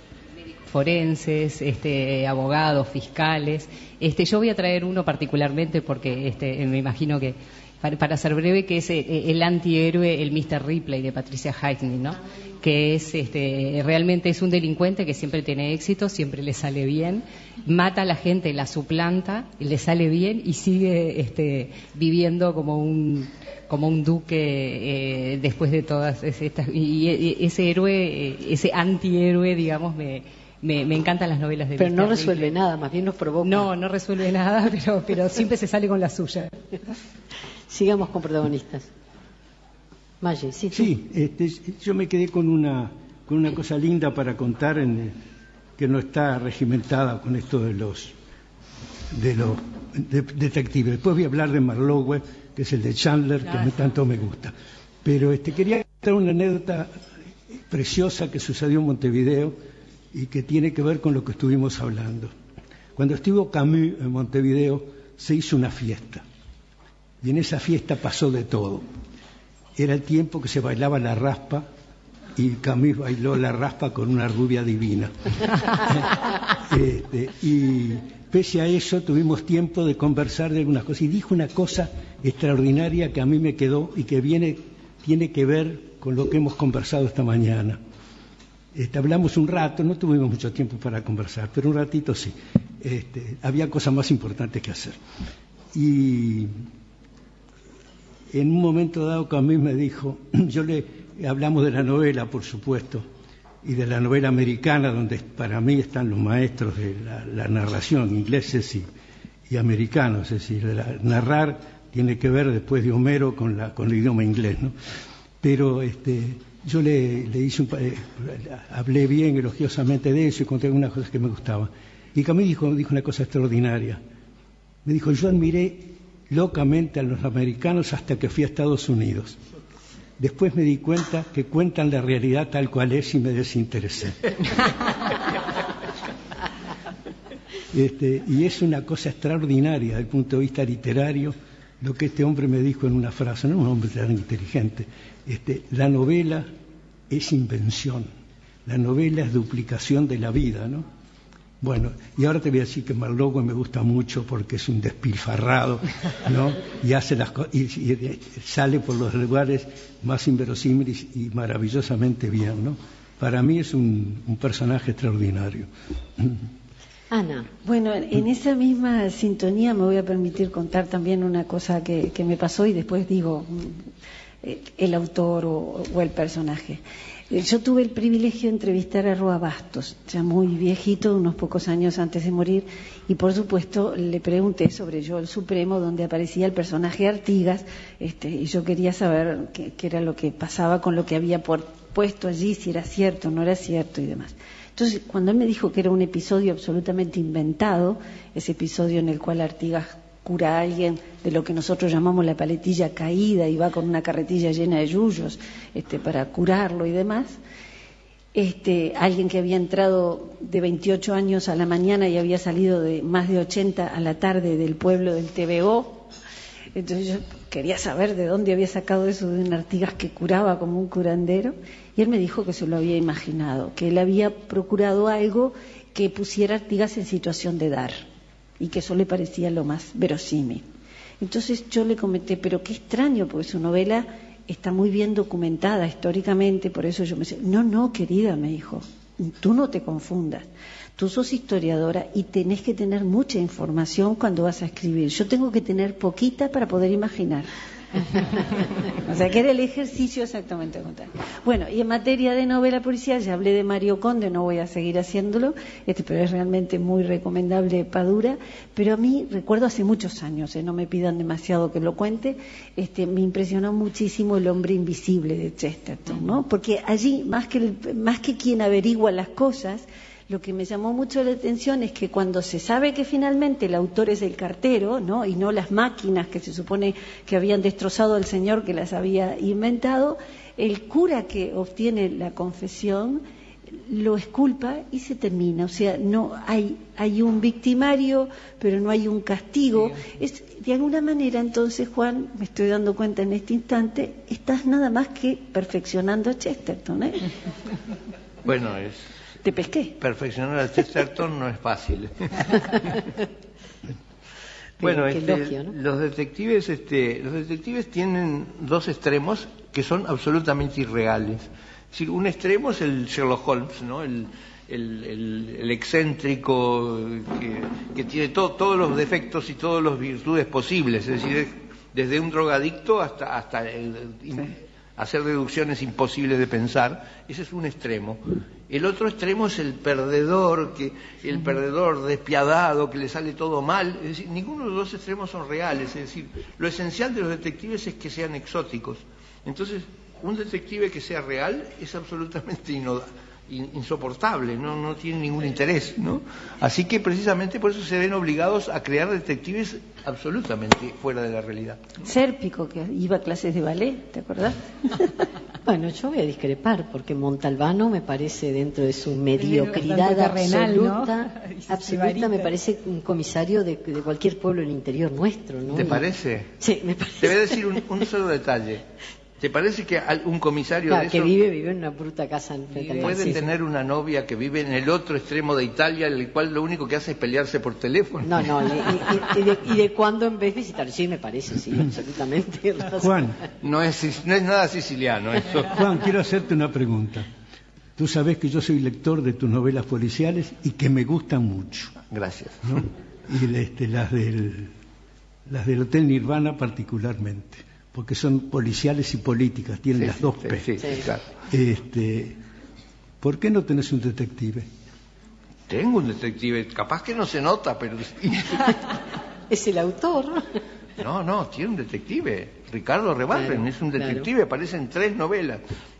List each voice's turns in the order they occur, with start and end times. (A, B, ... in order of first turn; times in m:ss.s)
0:00.7-0:32.5 A
0:31.8-0:33.7 B
0:33.4-0:36.5 A
0:37.7-0:38.9 B
0:40.2-0:40.9 B
0:40.7-0:45.1 C
0:45.8-0:48.1 C
0:49.1-0:54.5 C
0:55.0-0:57.0 C
0:57.7-0:59.6 C
1:00.1-1:02.3 C
1:03.0-1:06.2 C
1:07.2-1:08.8 C
1:09.8-1:11.7 C
1:12.4-1:27.8 C
1:28.7-1:35.0 C
1:35.7-1:36.5 C
1:38.3-1:43.0 C
1:43.6-1:48.8 C
1:49.5-1:54.7 C
1:55.4-2:04.0 C
2:04.8-2:09.4 C
2:10.2-2:14.4 C
2:17.7-2:26.5 C
2:27.1-2:28.1 C
2:28.6-2:30.8 C
2:31.6-2:46.4 C
2:47.1-2:47.5 B
2:47.6-2:53.8 D
2:54.4-3:27.4 D
3:28.3-3:36.1 D
3:36.7-3:48.0 D
3:48.6-3:50.6 D
3:51.2-4:07.5 D
4:08.3-4:43.2 D
4:43.7-4:57.3 D
4:58.4-4:59.0 E
4:59.4-5:00.0 D
5:00.0-5:03.1 E
5:04.8-5:05.7 B
5:04.8-5:52.0 E
5:52.0-5:55.2 D
5:55.6-6:06.0 B
5:59.4-6:02.5 A
6:05.7-6:06.5 E
6:06.6-6:07.8 B
6:07.2-6:08.8 E
6:09.4-6:11.3 E
6:10.9-6:13.4 B
6:12.8-6:13.4 A
6:13.0-6:19.2 E
6:18.2-6:23.2 B
6:23.0-6:23.4 C
6:23.6-6:25.8 E
6:25.7-6:27.3 C
6:28.0-6:32.0 C
6:32.1-6:32.8 E
6:32.6-6:34.7 C
6:35.4-6:40.8 C
6:40.0-6:41.2 E
6:41.5-6:42.4 C
6:43.2-6:44.6 C
6:45.7-6:48.8 E
6:49.5-6:50.6 B
6:51.0-6:55.6 E
6:53.3-6:54.3 B